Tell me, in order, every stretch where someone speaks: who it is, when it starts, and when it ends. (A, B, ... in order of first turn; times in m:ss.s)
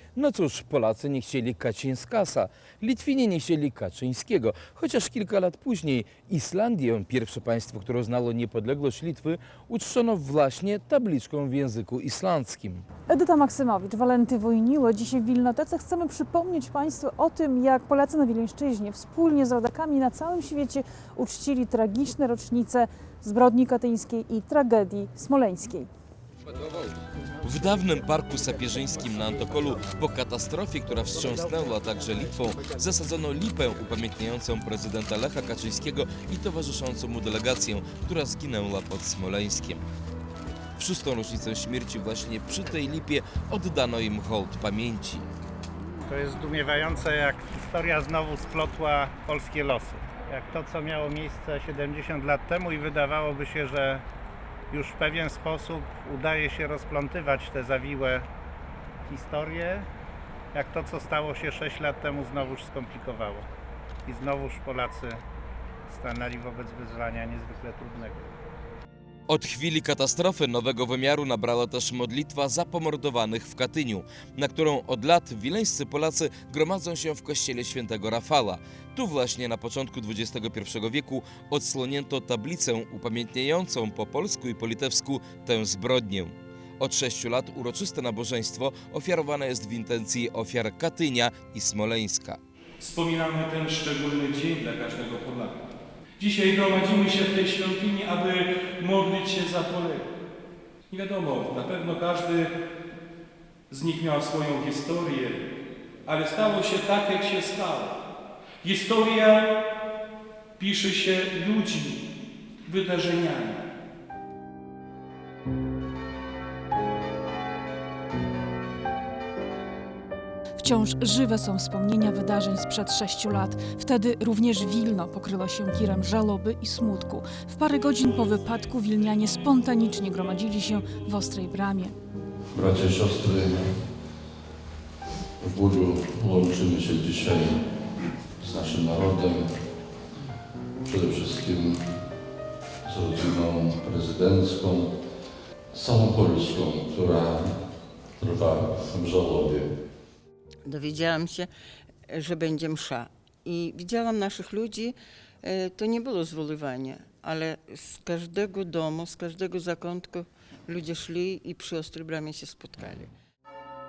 0:00.2-0:12.8 A
0:13.1-0:25.9 B
0:27.4-0:39.8 A
0:40.8-0:45.2 A
0:46.1-0:54.0 C
0:54.7-0:58.2 C
0:59.1-0:59.8 C
1:00.5-1:03.4 C
1:04.1-1:05.2 C
1:05.9-1:08.2 C
1:09.3-1:32.4 A
1:32.8-1:35.6 D
1:36.2-1:40.0 D
1:40.9-1:42.5 D
1:43.7-1:45.4 D
1:46.1-1:47.9 D
1:48.6-1:49.4 D
1:50.6-1:52.0 D
1:52.6-1:53.6 D
2:00.6-2:11.9 B
2:12.5-2:13.7 E
2:15.4-2:17.6 E
2:18.4-2:19.5 E
2:20.8-2:21.9 E
2:22.8-2:25.0 E
2:25.7-2:27.6 E
2:28.2-2:29.7 E
2:30.6-2:31.5 F
2:32.1-2:43.1 F